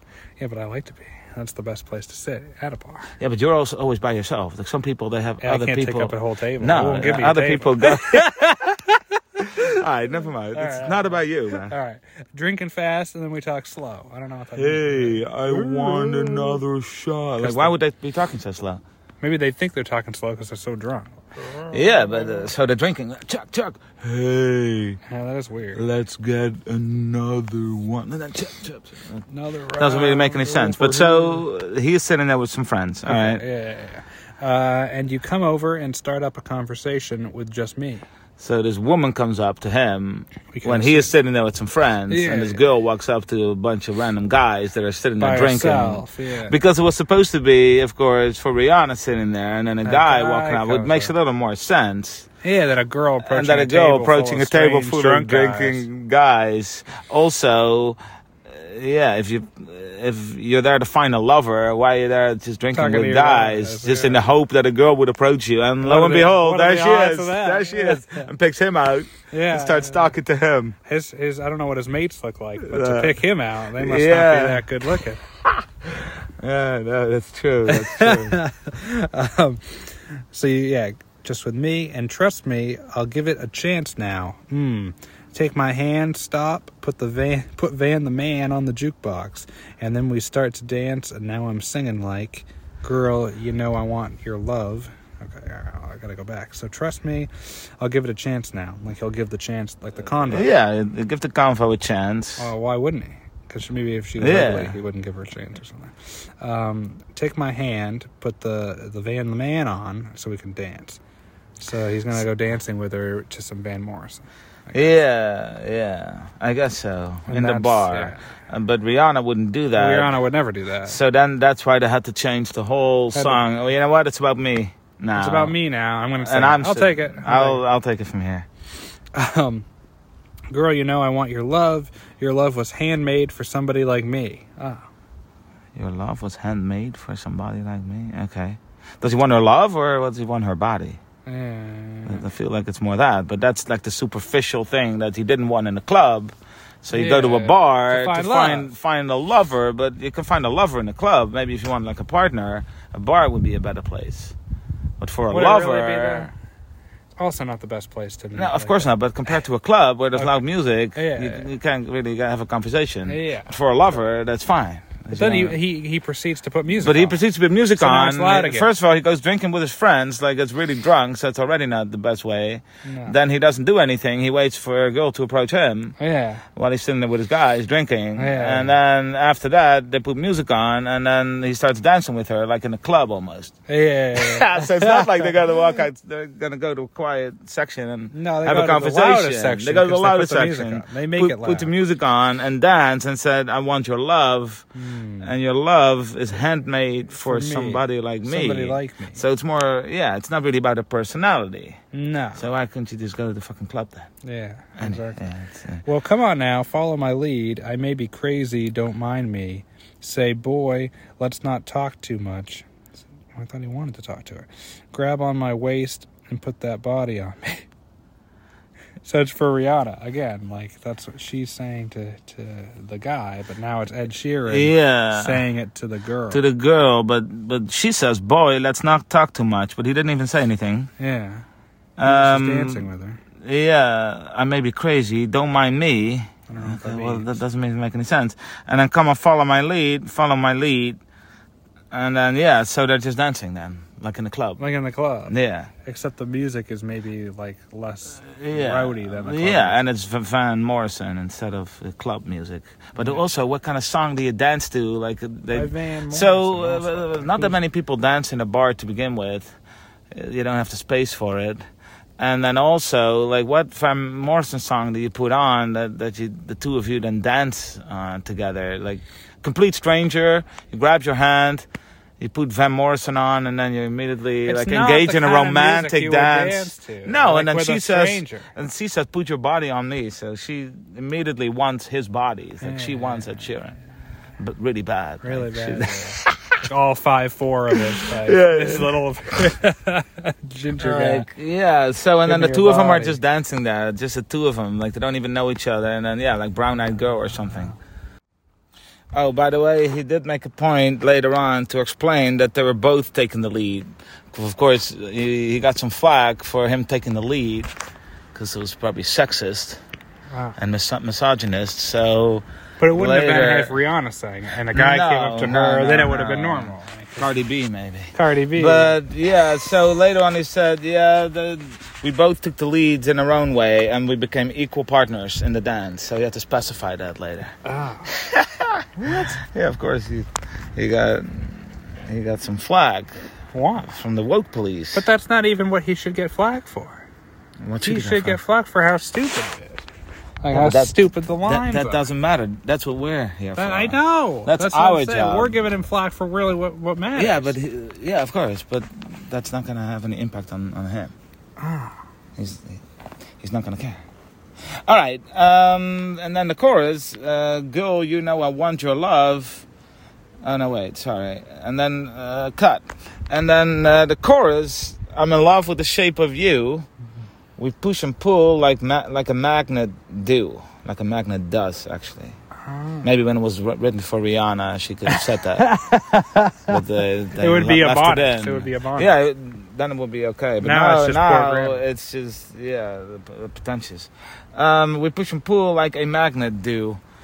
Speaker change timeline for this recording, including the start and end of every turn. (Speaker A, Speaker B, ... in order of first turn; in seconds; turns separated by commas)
Speaker A: 0.4-3.1, Speaker B: 3.2-8.4, Speaker A: 5.4-9.8, Speaker B: 9.4-11.7, Speaker A: 10.5-16.6, Speaker B: 14.5-18.8, Speaker A: 17.4-17.8, Speaker A: 19.2-22.5, Speaker B: 21.7-25.0, Speaker A: 25.1-25.8, Speaker B: 25.7-33.4, Speaker A: 29.3-31.4, Speaker A: 33.0-38.0, Speaker B: 38.4-52.3, Speaker A: 40.5-41.1, Speaker A: 42.1-42.6, Speaker A: 45.2-46.5, Speaker A: 49.8-51.1, Speaker A: 52.4-55.9, Speaker B: 53.2-70.8, Speaker A: 62.7-64.3, Speaker A: 65.8-68.3, Speaker A: 69.3-70.2, Speaker A: 70.8-75.2, Speaker B: 72.6-74.7, Speaker B: 75.9-78.4, Speaker A: 77.7-100.5, Speaker B: 100.2-102.5, Speaker A: 102.4-111.0, Speaker B: 104.2-104.8, Speaker A: 111.6-114.9, Speaker B: 114.7-120.1, Speaker A: 117.3-118.2, Speaker A: 119.7-121.0, Speaker B: 120.8-125.5, Speaker A: 123.1-123.4, Speaker A: 125.1-127.6, Speaker B: 126.2-128.5, Speaker A: 129.1-129.7, Speaker A: 130.5-134.8, Speaker B: 135.8-141.0, Speaker A: 141.2-142.3, Speaker B: 142.1-154.3, Speaker A: 146.9-148.7, Speaker B: 155.0-156.3, Speaker A: 155.3-156.3, Speaker A: 157.2-158.9, Speaker B: 158.3-165.6, Speaker A: 160.9-161.5, Speaker A: 163.1-163.5, Speaker A: 165.1-167.2, Speaker B: 166.8-175.9, Speaker A: 167.8-168.7, Speaker A: 172.8-173.1, Speaker A: 176.0-176.4, Speaker B: 176.5-183.5, Speaker A: 178.2-178.7, Speaker A: 183.7-185.3, Speaker B: 184.1-194.7, Speaker A: 188.1-191.7, Speaker A: 194.7-195.3, Speaker B: 195.2-201.8, Speaker A: 197.1-199.2, Speaker A: 201.9-202.4, Speaker B: 202.3-204.1, Speaker A: 204.2-205.2, Speaker B: 204.8-205.8, Speaker A: 205.8-212.7, Speaker A: 213.3-217.7, Speaker A: 219.0-226.4, Speaker B: 224.5-225.4, Speaker B: 226.3-230.9, Speaker A: 231.0-231.4, Speaker B: 232.0-232.9, Speaker A: 232.0-233.2, Speaker B: 233.4-241.0, Speaker A: 236.5-237.3, Speaker B: 241.9-244.6, Speaker A: 244.6-249.8, Speaker B: 245.3-245.7, Speaker B: 248.4-259.6, Speaker A: 253.0-253.2, Speaker A: 255.5-257.6, Speaker B: 260.1-261.6, Speaker B: 262.2-271.6, Speaker B: 272.2-283.8, Speaker A: 274.4-278.5, Speaker A: 282.6-283.5, Speaker B: 284.4-286.6, Speaker A: 285.2-291.3, Speaker B: 287.8-289.0, Speaker B: 290.8-297.7, Speaker A: 292.2-293.2, Speaker B: 299.1-307.7, Speaker B: 308.3-309.8, Speaker A: 310.3-310.6, Speaker B: 310.6-313.7, Speaker A: 312.8-317.3, Speaker B: 314.7-327.6, Speaker A: 318.1-318.9, Speaker A: 327.6-328.1, Speaker B: 328.1-333.1, Speaker A: 329.0-329.4, Speaker A: 333.5-333.9, Speaker B: 333.8-335.0, Speaker A: 334.9-337.0, Speaker B: 337.6-338.4, Speaker A: 337.8-339.9, Speaker A: 340.4-342.0, Speaker B: 340.5-345.6, Speaker A: 343.6-347.5, Speaker B: 347.1-351.1, Speaker A: 351.6-352.0, Speaker B: 352.4-352.8, Speaker B: 353.4-354.0, Speaker B: 354.8-359.6, Speaker B: 360.4-366.9, Speaker B: 367.6-372.4, Speaker A: 372.6-373.1, Speaker B: 373.0-375.7, Speaker A: 375.1-376.8, Speaker B: 376.7-387.0, Speaker A: 377.4-379.1, Speaker A: 380.6-381.8